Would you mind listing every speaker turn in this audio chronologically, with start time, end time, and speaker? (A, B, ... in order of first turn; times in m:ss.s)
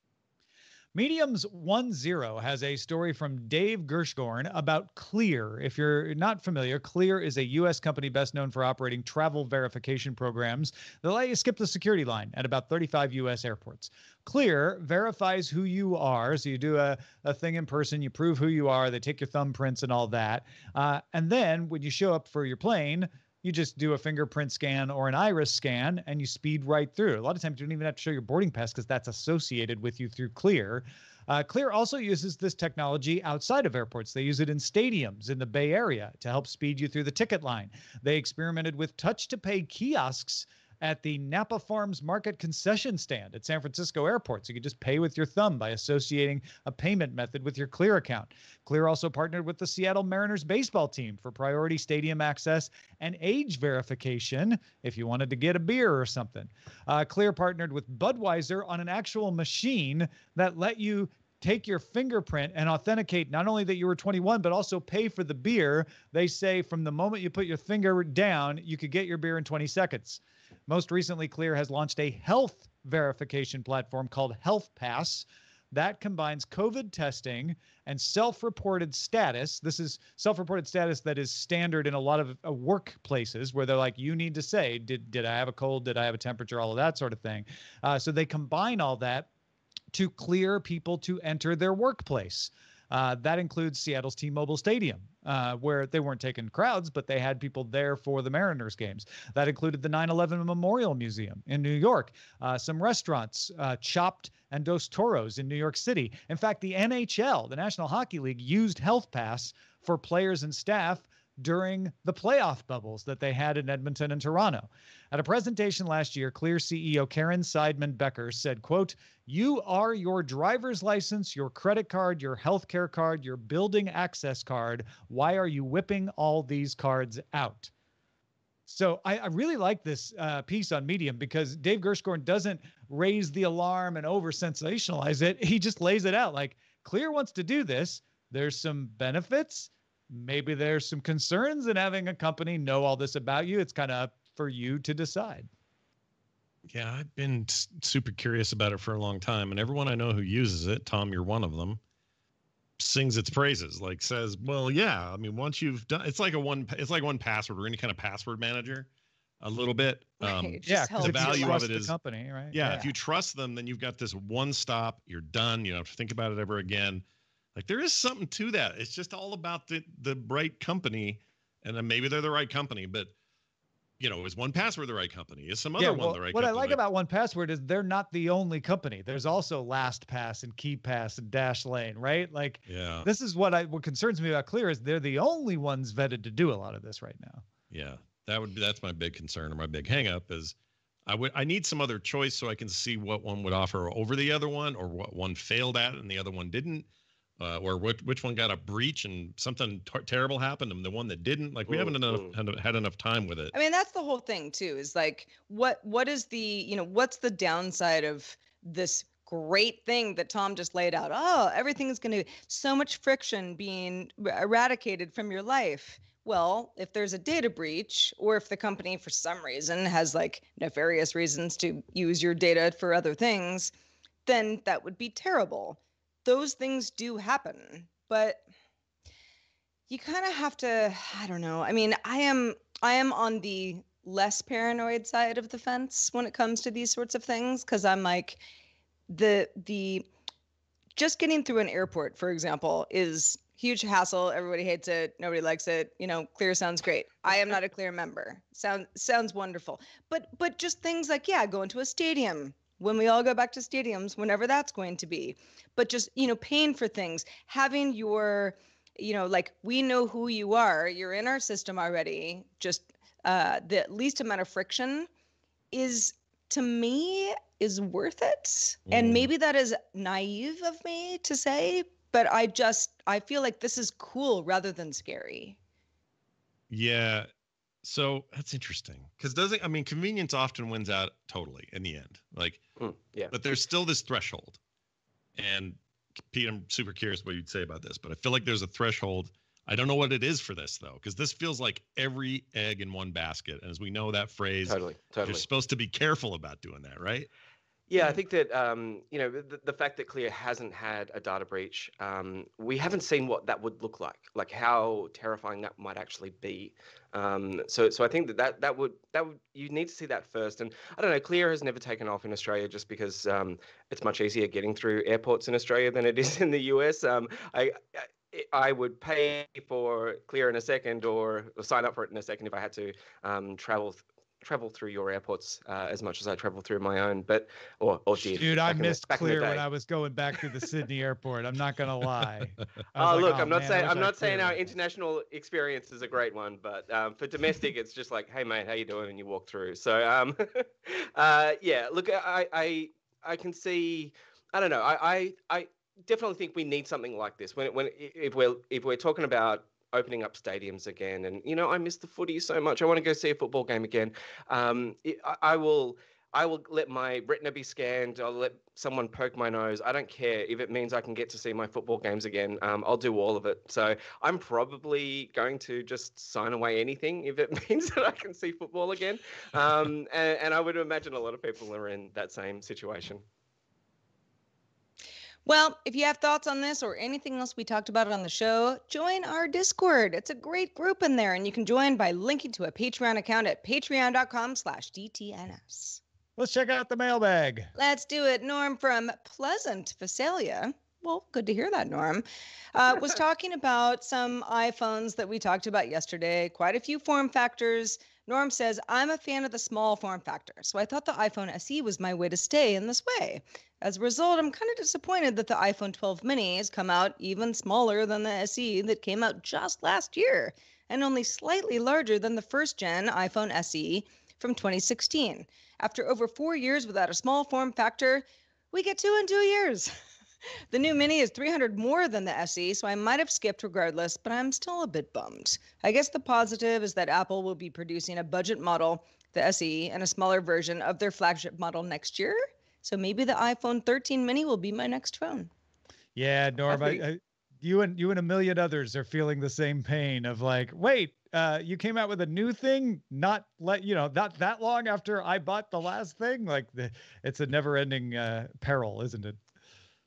0:00.9-1:29.3 A
1:29.9-2:07.7 A
2:08.7-2:25.5 A
2:26.7-2:31.8 B
2:32.8-2:38.9 B
2:39.4-2:41.9 B
2:40.2-2:41.7 C
2:40.7-2:42.9 A
2:42.5-2:47.0 B
2:47.5-2:53.1 B
2:54.0-2:56.8 B
2:55.8-3:07.4 A
3:02.7-3:03.1 B
3:07.7-3:10.5 B
3:11.0-3:16.8 B
3:17.4-3:23.5 B
3:21.7-3:22.3 D
3:23.5-3:43.7 C
3:44.2-3:48.4 C
3:49.9-3:58.4 C
3:59.1-4:00.0 C
4:00.9-4:25.1 C
4:25.7-4:35.6 C
4:28.9-4:29.3 B
4:36.7-4:37.3 B
4:37.8-4:42.6 B
4:42.8-4:43.3 D
4:43.3-4:44.6 B
4:45.4-4:57.3 B
4:54.6-4:55.4 D
4:57.9-5:29.6 D
5:28.3-5:34.6 A
5:33.0-6:13.2 D
6:15.4-6:26.0 C
6:26.4-6:27.7 A
6:27.8-6:59.9 C
7:00.7-7:15.5 C
7:16.2-7:29.4 A